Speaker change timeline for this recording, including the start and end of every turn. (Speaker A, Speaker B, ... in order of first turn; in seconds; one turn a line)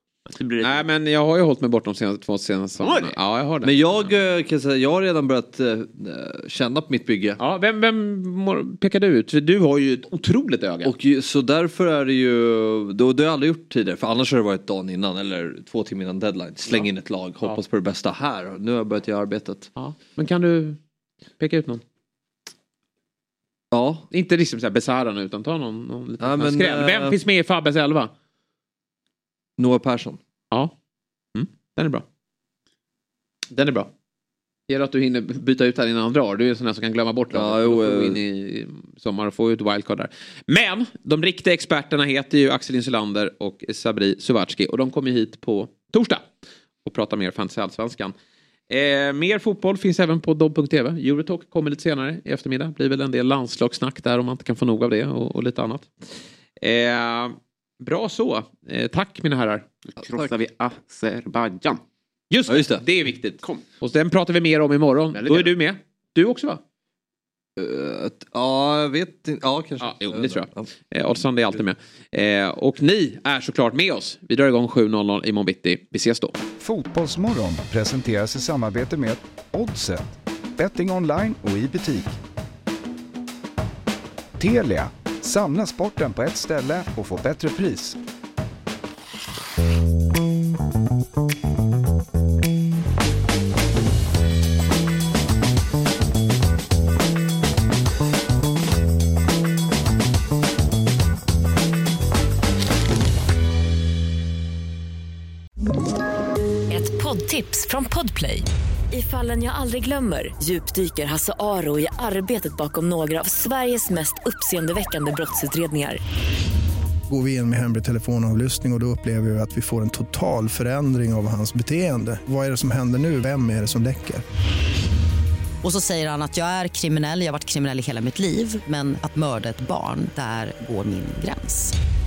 Speaker A: 0.3-0.8
Speaker B: 0.6-4.1
Speaker A: 2.8-3.1
Speaker C: 3.6-7.4
Speaker B: 7.4-10.9
Speaker C: 10.8-19.7
Speaker B: 19.8-20.8
Speaker B: 21.4-21.8
Speaker C: 23.7-24.0
Speaker B: 24.1-28.1
Speaker C: 26.2-27.2
Speaker C: 29.6-30.2
Speaker B: 31.3-32.0
Speaker B: 33.5-33.9
Speaker B: 34.7-46.2
Speaker C: 37.3-38.2
Speaker B: 46.8-48.1
Speaker B: 48.7-59.6
Speaker A: 59.9-61.8
Speaker C: 60.0-60.3
Speaker B: 62.3-66.6
Speaker C: 62.5-62.8
Speaker A: 65.1-65.5
Speaker C: 67.6-70.7
Speaker B: 69.8-76.4
Speaker D: 76.6-82.2
Speaker D: 84.4-88.0
Speaker E: 106.7-116.0
Speaker F: 117.1-124.2
Speaker G: 125.6-131.7